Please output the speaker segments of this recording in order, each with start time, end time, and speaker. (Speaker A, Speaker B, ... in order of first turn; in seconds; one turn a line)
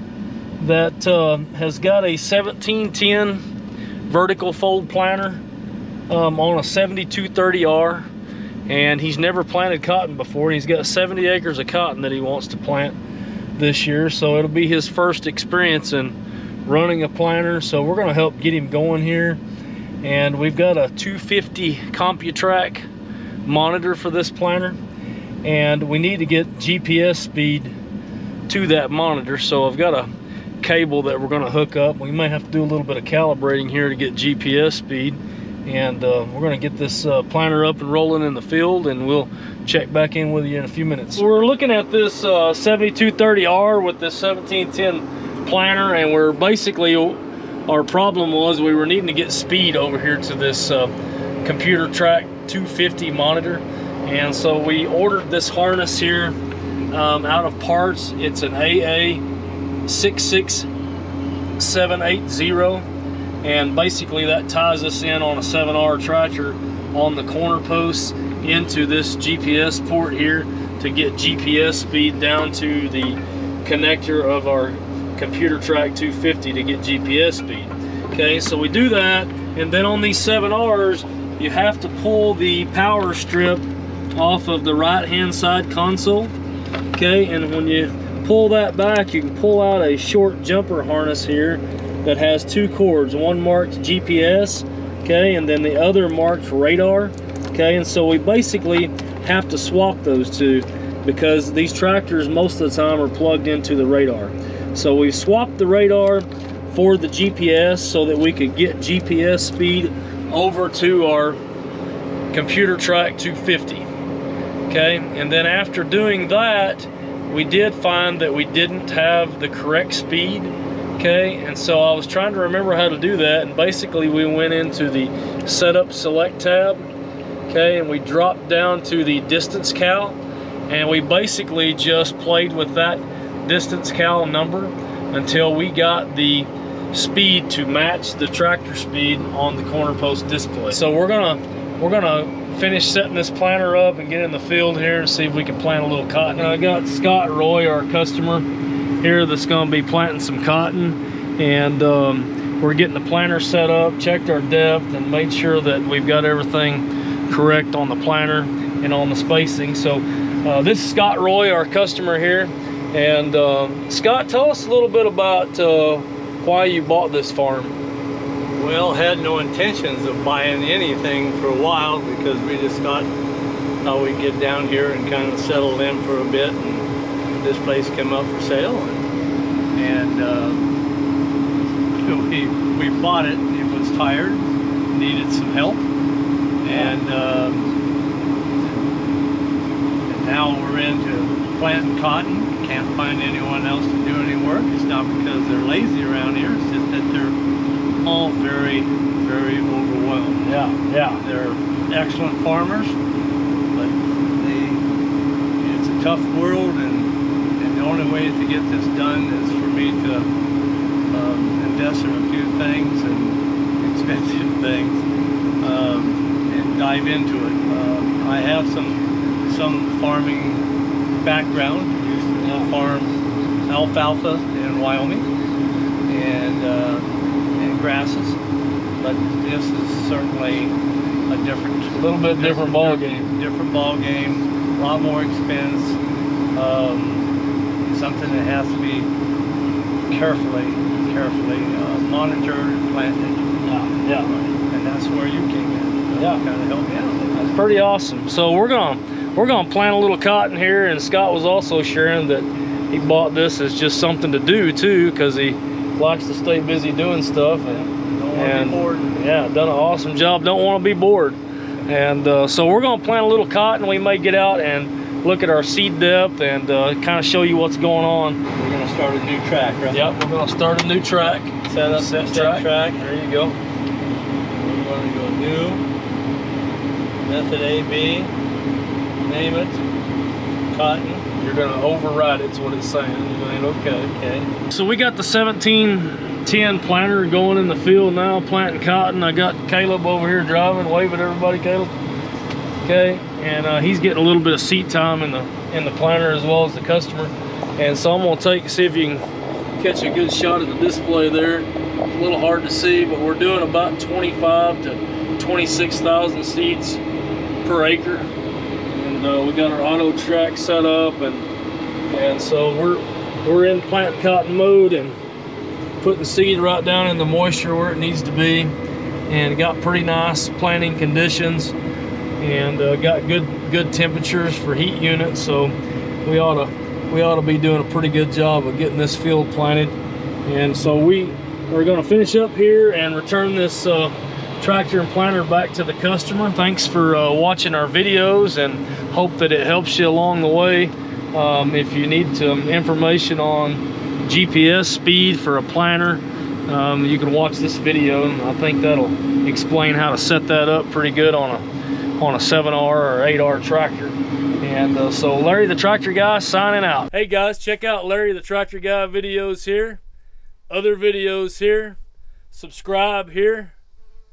Speaker A: 0.6-3.4
Speaker A: 4.1-5.4
Speaker A: 6.1-8.1
Speaker A: 8.7-13.0
Speaker A: 13.6-19.4
Speaker A: 20.0-22.9
Speaker A: 23.4-24.8
Speaker A: 25.4-27.7
Speaker A: 28.5-30.1
Speaker A: 30.6-50.9
Speaker A: 51.4-56.4
Speaker A: 56.9-59.2
Speaker A: 59.9-60.7
Speaker A: 61.6-62.9
Speaker A: 63.4-86.3
Speaker A: 86.9-111.4
Speaker A: 112.3-113.9
Speaker A: 114.7-126.9
Speaker A: 127.5-148.5
Speaker A: 149.0-167.8
Speaker B: 168.6-173.1
Speaker B: 173.8-176.9
Speaker B: 177.4-179.0
Speaker B: 179.8-180.6
Speaker B: 182.0-185.8
Speaker B: 186.6-187.7
Speaker A: 186.7-186.9
Speaker B: 190.1-197.4
Speaker B: 198.0-200.5
Speaker A: 200.4-201.2
Speaker B: 201.2-203.0
Speaker B: 203.8-204.8
Speaker B: 205.6-210.3
Speaker B: 211.1-215.0
Speaker B: 215.6-220.7
Speaker B: 221.2-223.1
Speaker A: 222.4-222.7
Speaker B: 223.7-225.3
Speaker B: 226.1-228.4
Speaker B: 229.0-230.8
Speaker B: 231.3-236.0
Speaker A: 231.9-233.3
Speaker B: 236.5-237.3
Speaker B: 237.8-239.1
Speaker B: 240.1-243.5
Speaker A: 243.6-244.3
Speaker B: 244.2-247.5
Speaker A: 246.2-246.4
Speaker A: 247.3-268.4
Speaker B: 257.7-259.2
Speaker B: 268.5-270.1
Speaker A: 269.9-273.6
Speaker B: 271.7-273.1
Speaker B: 274.5-275.8
Speaker B: 277.3-278.3
Speaker B: 279.2-279.8
Speaker B: 280.7-281.3
Speaker A: 281.4-284.1
Speaker B: 284.0-284.5
Speaker A: 284.6-291.9
Speaker A: 292.8-299.2
Speaker A: 299.8-307.0
Speaker A: 307.6-308.3
Speaker A: 308.9-311.5
Speaker A: 312.1-315.2
Speaker A: 316.0-318.7
Speaker A: 319.3-321.8
Speaker A: 322.4-351.6
Speaker A: 352.2-360.0
Speaker A: 360.7-362.0
Speaker A: 362.5-363.7